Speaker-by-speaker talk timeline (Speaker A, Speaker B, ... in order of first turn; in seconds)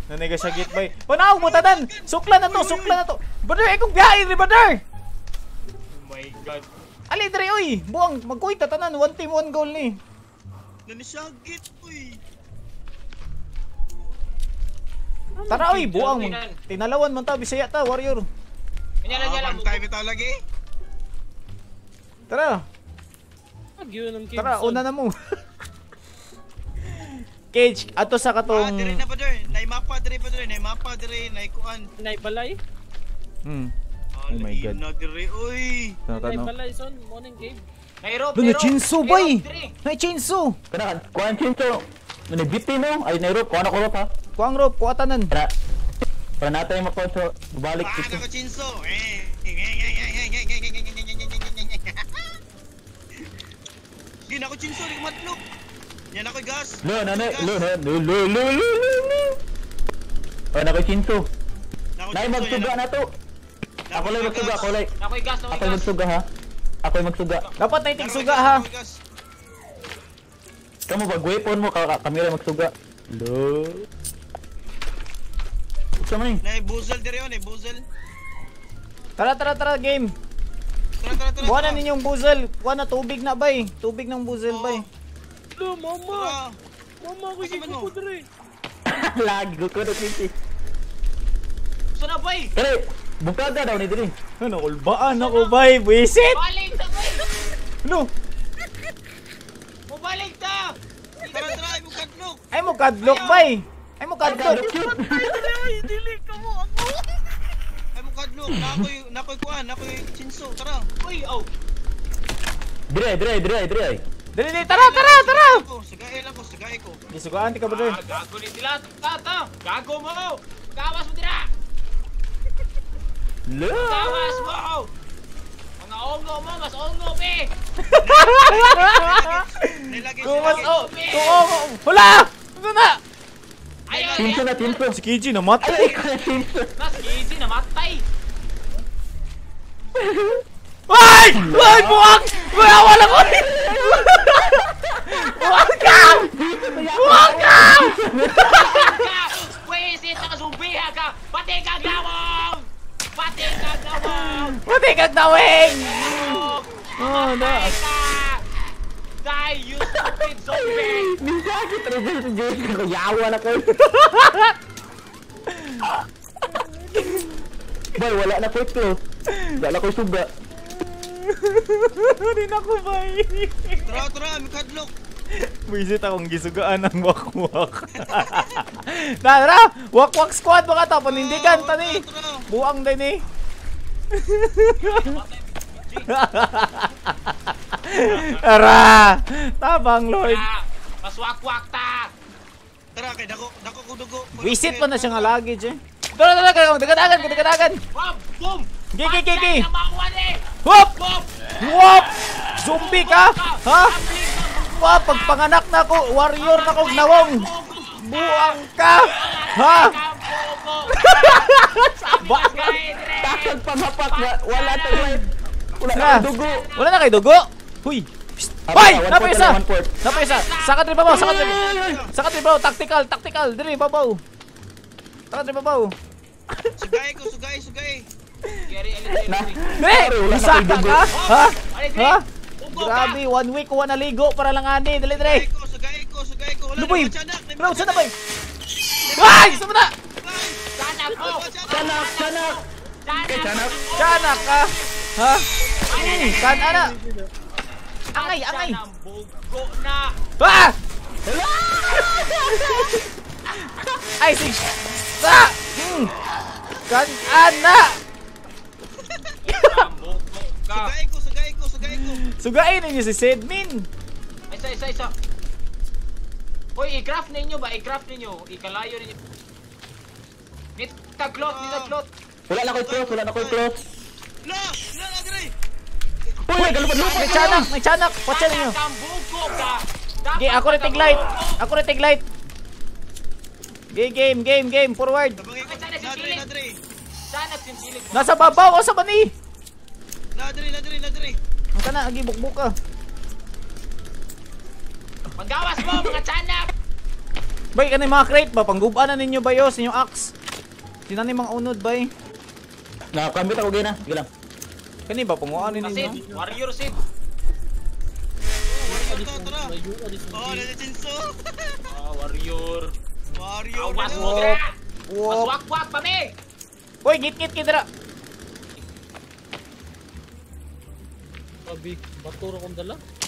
Speaker A: 0.1-4.8, 7.1-10.0, 15.5-18.3, 22.3-22.6, 24.3-25.4, 26.9-29.0, 33.4-33.7, 34.3-34.8, 36.1-36.5, 38.3-40.6, 44.4-45.3, 67.6-68.6, 79.2-80.1, 81.4-84.8, 94.4-96.4, 97.8-98.1, 102.5-104.7, 114.3-115.6, 117.1-118.0, 127.9-133.0, 134.9-136.0, 140.9-148.7, 154.0-157.7, 164.0-164.5, 165.5-165.9, 166.9-167.3, 170.6-174.0, 175.3-183.2, 184.1-185.2, 186.1-190.4, 194.4-197.8, 198.9-199.7, 200.6-201.0, 201.6-203.9, 204.8-209.9, 211.0-212.8, 215.9-224.2, 225.3-225.9, 229.7-235.4, 236.8-238.1, 239.2-239.9, 243.9-245.4, 246.0-246.9, 248.1-248.8, 250.4-250.8, 252.6-253.0, 254.2-256.1, 256.9-258.0, 259.5-259.8, 261.9-263.9, 277.0-278.8, 280.4-282.2, 283.9-285.4, 288.1-289.3, 291.8-292.7, 297.7-300.3, 301.1-302.1, 305.1-306.2, 314.1-315.5, 317.0-317.9
Speaker B: 0.5-0.8, 1.3-3.0, 10.9-12.2, 19.1-20.3, 28.5-31.8, 34.1-36.0, 47.8-52.3, 54.3-55.4, 56.1-57.7, 62.0-62.8, 63.9-64.8, 67.9-69.0, 76.4-77.8, 81.0-81.8, 84.5-84.9, 86.1-86.5, 87.4-87.9, 101.3-102.4, 107.9-110.8, 114.5-117.0, 128.0-130.7, 133.9-134.3, 173.9-174.9, 178.1-178.6, 181.1-182.4, 192.9-195.3, 221.1-222.1, 226.8-228.1, 235.1-238.1, 239.1-239.7, 240.2-240.7, 241.2-241.9, 246.0-246.6, 260.7-262.2, 271.4-271.9, 272.6-273.6, 274.4-275.5, 285.4-286.8, 290.3-291.4, 308.7-309.7, 310.3-311.8, 313.3-314.6
Speaker C: 5.9-6.7, 15.4-16.6, 19.0-19.8, 38.0-39.7, 65.0-65.9, 91.9-92.5, 95.1-95.6, 96.3-97.3, 99.9-101.6, 103.0-103.4, 111.0-111.5, 117.7-121.5, 123.7-124.9, 125.8-127.5, 128.5-128.9, 130.2-131.4, 133.9-134.8, 136.8-138.0, 148.4-154.6, 155.4-158.4, 159.2-161.1, 184.8-186.1, 188.0-188.4, 190.2-192.1, 196.7-201.4, 202.6-205.4, 206.3-215.2, 216.1-217.0, 220.1-220.8, 228.7-229.6, 231.0-233.2, 240.8-244.9, 245.9-246.5, 248.1-250.2, 259.4-260.9, 264.5-265.1, 266.8-269.2, 270.8-272.1, 276.6-277.7, 278.2-281.6, 285.6-286.4, 287.3-288.8, 295.4-296.7, 305.8-307.0, 311.9-312.9, 313.8-314.7, 315.3-316.4
Speaker D: 23.8-24.8, 32.0-32.6, 36.1-37.6, 85.6-86.3, 87.0-88.2, 104.7-107.0, 245.6-247.3, 305.5-306.5, 308.9-310.7, 321.7-323.0
Speaker E: 40.7-44.1, 46.4-48.2, 56.8-59.4, 60.5-61.3, 62.1-63.0, 63.9-64.9, 65.5-66.2, 66.8-67.5, 70.9-73.9, 76.0-76.4, 88.9-90.3, 92.5-94.1, 104.2-105.4, 112.9-114.0, 123.5-124.4, 134.2-135.0, 135.6-136.7, 139.9-140.4, 141.3-148.9, 160.6-163.9, 167.9-168.9, 169.5-170.3, 213.2-216.6, 218.7-219.9, 221.1-222.0, 229.3-231.1, 241.7-242.6, 243.2-243.8, 251.2-253.0, 272.5-273.8, 276.4-277.6, 303.1-304.3